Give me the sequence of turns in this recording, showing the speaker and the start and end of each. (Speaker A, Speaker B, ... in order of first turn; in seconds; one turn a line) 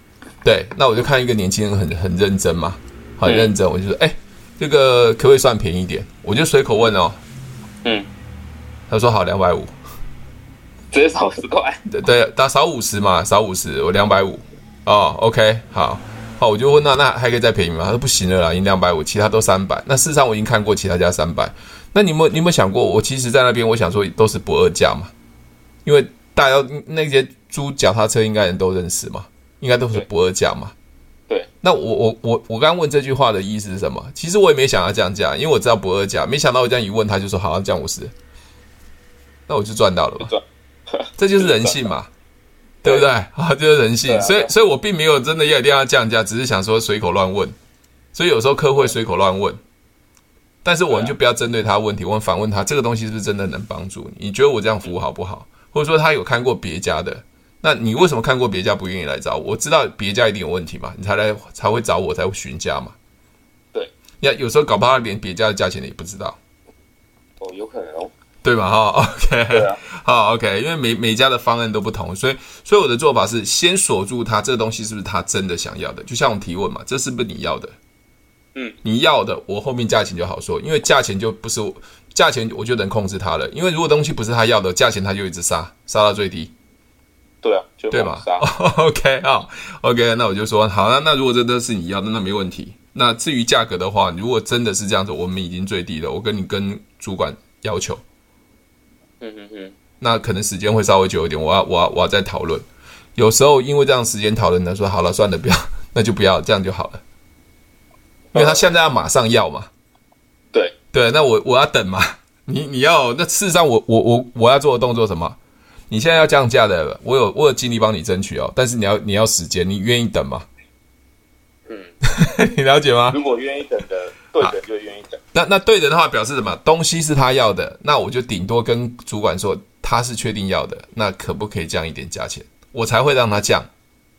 Speaker A: 0.4-7.2
Speaker B: 3.2-3.5
Speaker B: 7.8-8.1
Speaker A: 8.9-9.7
Speaker B: 10.9-11.8
Speaker A: 11.9-25.1
Speaker A: 25.8-30.7
Speaker A: 31.6-38.1
Speaker A: 39.5-40.3
Speaker B: 40.2-41.8
Speaker A: 41.2-42.1
Speaker A: 42.8-47.5
Speaker B: 44.1-44.5
Speaker A: 48.1-49.6
Speaker A: 50.6-62.9
Speaker B: 50.9-51.1
Speaker A: 64.2-66.4
Speaker B: 67.4-68.1
Speaker A: 68.4-77.7
Speaker B: 69.5-69.8
Speaker A: 78.8-86.5
Speaker B: 87.4-88.5
Speaker A: 87.9-98.0
Speaker B: 99.2-99.8
Speaker A: 100.0-102.6
Speaker A: 103.2-107.0
Speaker B: 108.3-108.7
Speaker A: 108.3-109.7
Speaker A: 110.9-115.4
Speaker A: 115.9-120.5
Speaker B: 121.7-121.9
Speaker A: 122.0-123.2
Speaker B: 123.1-125.2
Speaker A: 125.3-133.7